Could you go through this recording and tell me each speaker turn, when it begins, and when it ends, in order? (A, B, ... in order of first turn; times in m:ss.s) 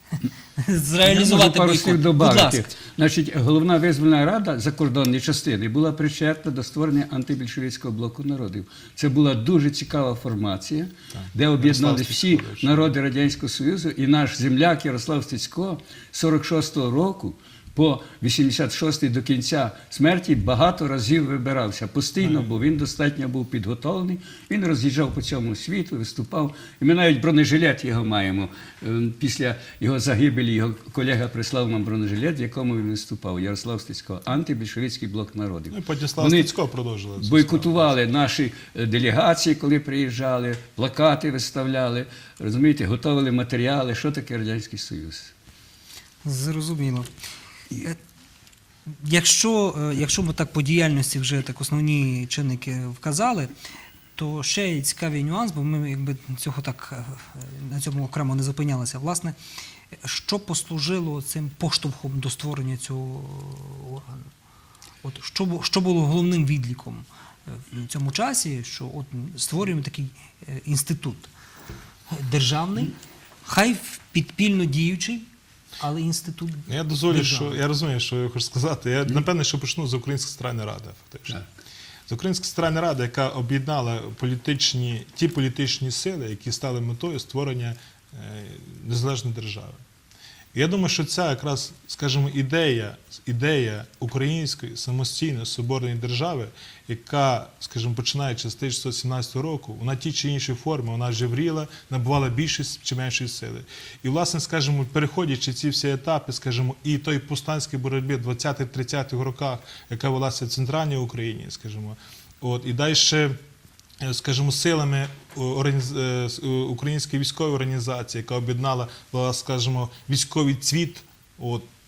0:00.6-0:02.7 A
0:01.0-0:36.5 B
0:11.1-0:12.9 C
0:22.2-0:22.5 C
0:35.7-0:37.9 C
0:37.2-0:45.3 B
0:46.2-0:47.1 A
0:48.9-0:53.5 A
0:54.2-0:59.3 A
1:00.0-1:04.2 A
1:05.0-1:07.0 A
1:07.6-1:11.3 A
1:12.1-1:15.2 A
1:15.8-1:17.6 A
1:16.7-1:21.4 C
1:22.1-1:29.8 C
1:30.5-1:53.4 C
1:54.0-2:01.6 C